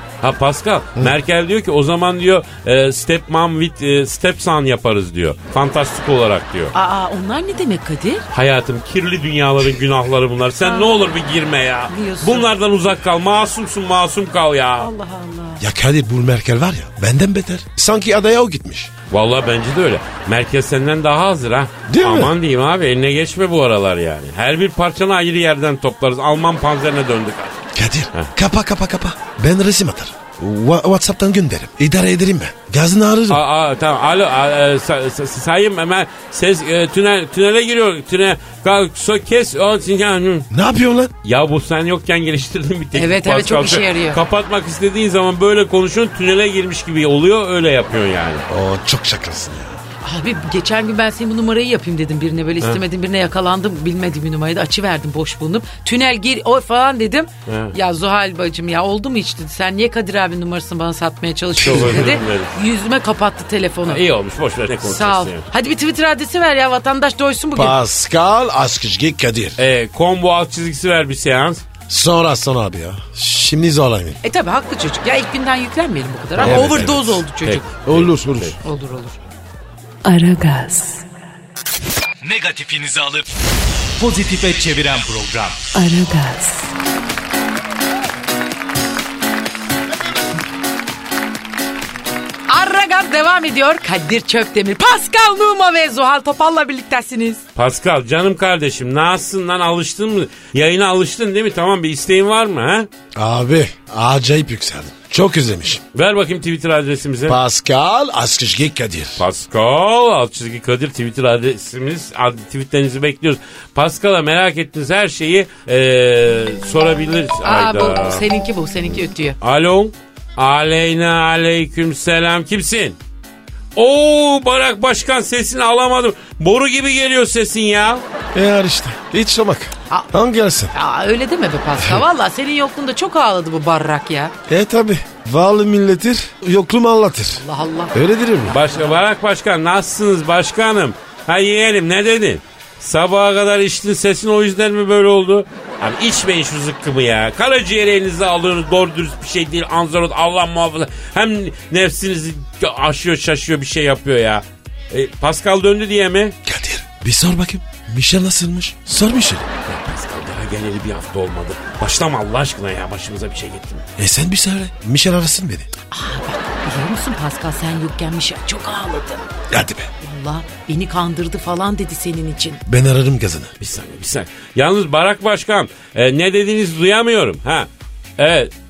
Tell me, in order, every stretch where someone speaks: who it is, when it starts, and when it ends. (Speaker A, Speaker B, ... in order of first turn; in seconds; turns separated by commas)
Speaker A: 0.2-6.7, Speaker B: 6.7-8.2, Speaker A: 8.3-14.9, Speaker B: 10.6-11.1, Speaker B: 11.9-12.5, Speaker B: 14.8-15.6, Speaker C: 15.6-18.9, Speaker A: 19.1-27.6, Speaker C: 21.9-22.3, Speaker C: 27.7-33.4, Speaker A: 33.3-40.5, Speaker C: 40.5-41.1, Speaker A: 41.2-48.5, Speaker B: 42.9-44.2, Speaker C: 48.5-49.8, Speaker B: 50.0-64.0, Speaker A: 57.5-57.7, Speaker A: 61.6-62.5, Speaker C: 61.6-62.1, Speaker A: 63.9-65.5, Speaker B: 64.8-67.8, Speaker C: 67.5-69.6, Speaker A: 69.6-71.6, Speaker C: 71.9-74.2, Speaker B: 74.2-77.6, Speaker A: 76.4-78.5, Speaker C: 76.4-77.1, Speaker C: 77.8-78.5, Speaker B: 78.6-79.2, Speaker D: 80.0-81.0, Speaker E: 82.2-83.3, Speaker E: 84.0-85.7, Speaker D: 85.7-86.7, Speaker B: 92.5-97.4, Speaker A: 97.5-102.9, Speaker C: 103.1-105.8, Speaker A: 105.9-107.4, Speaker C: 107.3-109.2, Speaker A: 109.2-118.2, Speaker B: 117.4-119.4, Speaker A: 119.4-123.0, Speaker A: 123.8-128.0, Speaker C: 128.3-130.7, Speaker B: 130.7-134.3, Speaker C: 134.5-137.4, Speaker B: 137.3-139.0, Speaker C: 137.9-138.6, Speaker A: 138.5-156.3, Speaker C: 156.4-159.4, Speaker A: 159.6-163.8, Speaker C: 164.0-165.7, Speaker B: 165.9-169.2, Speaker C: 169.5-169.9, Speaker B: 170.0-172.6, Speaker C: 172.7-173.5, Speaker A: 173.6-178.5